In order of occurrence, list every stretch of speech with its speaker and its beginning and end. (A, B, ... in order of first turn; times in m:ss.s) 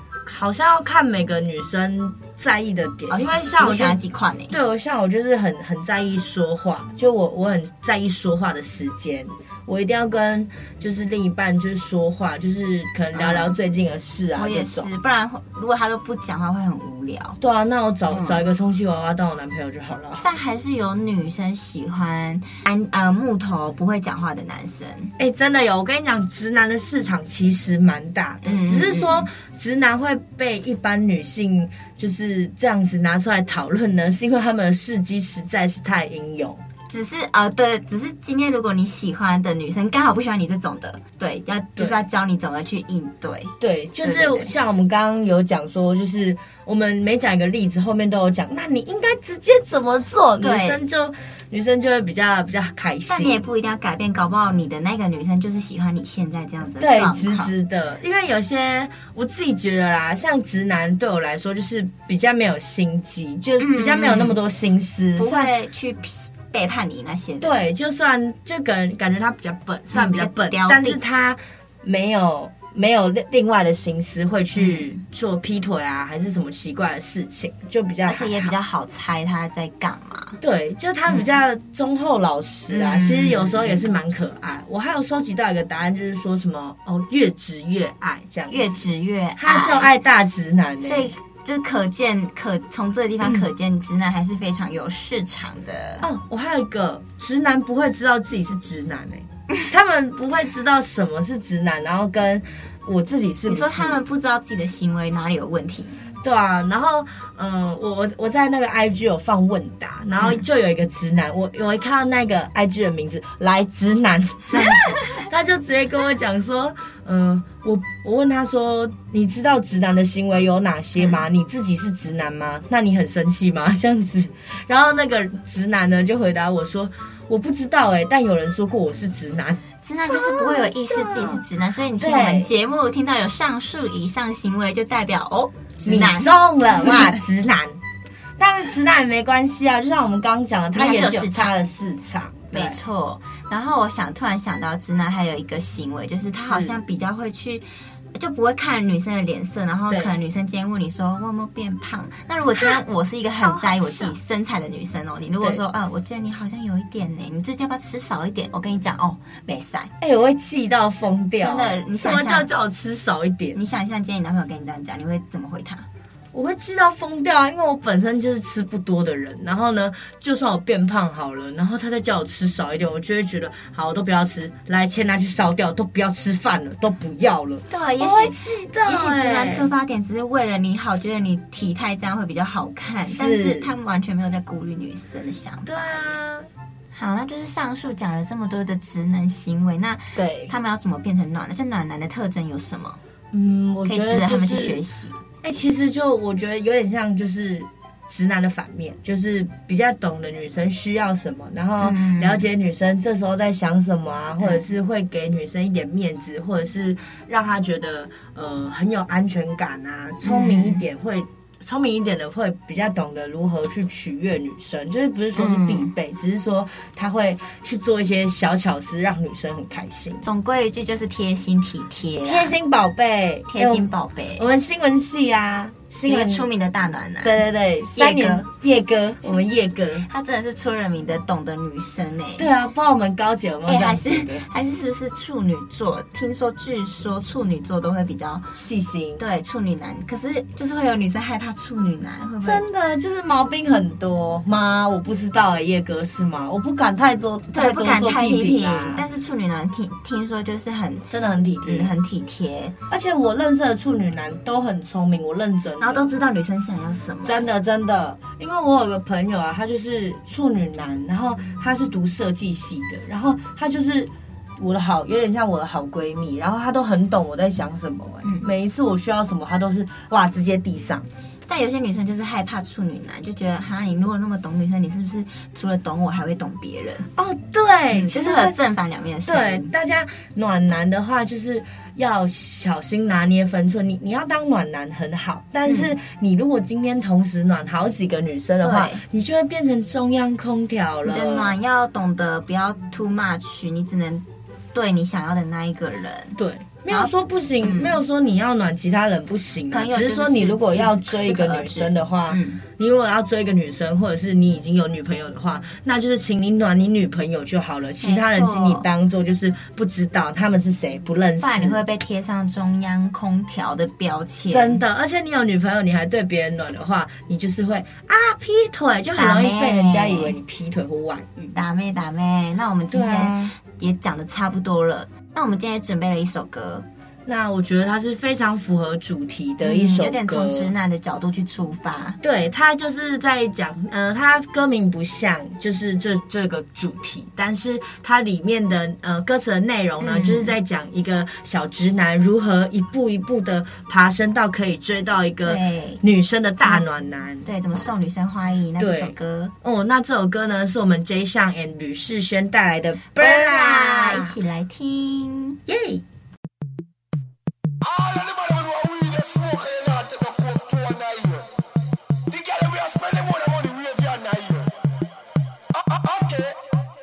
0:00.2-0:14.9 A
0:03.1-0:04.6 B
0:13.1-0:13.5 B
0:14.4-0:17.4 B
0:17.4-0:20.2 A
0:18.1-0:18.4 B
0:20.2-0:25.1 B
0:25.2-0:36.6 A
0:28.4-0:29.3 B
0:36.9-0:44.5 B
0:41.8-0:42.0 A
0:43.6-0:53.4 A
0:50.4-0:50.8 B
0:53.1-0:57.5 B
0:56.8-1:05.5 A
1:03.6-1:04.4 B
1:05.2-1:07.6 B
1:07.4-1:18.5 A
1:09.9-1:11.0 B
1:14.6-1:14.9 B
1:18.1-1:20.4 B
1:20.4-1:28.8 A
1:22.7-1:23.9 B
1:28.5-1:29.9 B
1:29.4-1:31.1 A
1:30.8-1:36.0 B
1:36.0-1:44.0 A
1:43.5-1:46.0 B
1:46.2-2:11.4 A
1:54.6-1:55.0 B
2:01.0-2:01.2 B
2:09.8-2:17.1 B
2:12.0-2:12.5 A
2:15.8-2:17.8 A
2:18.4-2:22.8 A
2:20.7-2:21.5 B
2:22.5-2:39.9 B
2:26.4-2:26.8 A
2:29.9-2:30.2 A
2:33.3-2:34.1 A
2:40.0-2:43.6 A
2:41.4-2:42.5 B
2:43.5-2:45.8 B
2:46.3-2:59.7 A
2:57.7-3:06.2 B
3:03.1-3:03.7 A
3:05.6-3:06.5 A
3:06.9-3:13.0 B
3:10.1-3:10.5 A
3:13.3-3:14.8 A
3:13.8-3:15.2 B
3:15.4-3:40.2 A
3:21.8-3:22.4 B
3:30.2-3:30.8 B
3:35.4-3:35.9 B
3:40.2-3:42.6 B
3:42.2-3:46.5 A
3:43.5-3:44.5 B
3:46.0-3:47.4 B
3:47.2-3:50.1 A
3:47.9-3:48.5 B
3:50.0-3:52.5 B
3:52.4-3:54.4 A
3:53.7-3:58.5 B
3:58.5-3:59.2 A
3:59.2-4:02.6 B
4:02.4-4:09.0 A
4:07.5-4:11.1 B
4:11.1-4:11.9 A
4:11.6-4:12.8 B
4:12.9-4:16.1 A
4:15.8-4:17.5 B
4:17.2-4:31.1 A
4:31.5-4:37.1 B
4:37.2-4:38.6 A
4:37.9-4:39.7 B
4:39.2-4:51.6 A
4:45.6-4:45.9 B
4:48.6-4:49.0 B
4:51.0-4:56.4 B
4:56.4-5:11.8 A
4:57.6-4:58.0 B
4:59.7-5:02.6 B
5:08.0-5:08.9 B
5:11.4-5:14.8 B
5:14.5-5:21.6 A
5:19.2-5:20.4 B
5:21.5-5:26.8 B
5:22.9-5:23.5 A
5:27.2-5:30.7 A
5:29.6-5:32.2 B
5:32.2-5:47.5 A
5:40.0-5:40.5 B
5:45.4-5:46.0 B
5:47.4-5:49.5 B
5:48.8-5:54.4 A
5:53.2-5:55.6 B
5:55.7-5:56.0 A
5:57.8-6:01.5 C
6:02.3-6:04.7 C
6:05.7-6:06.6 C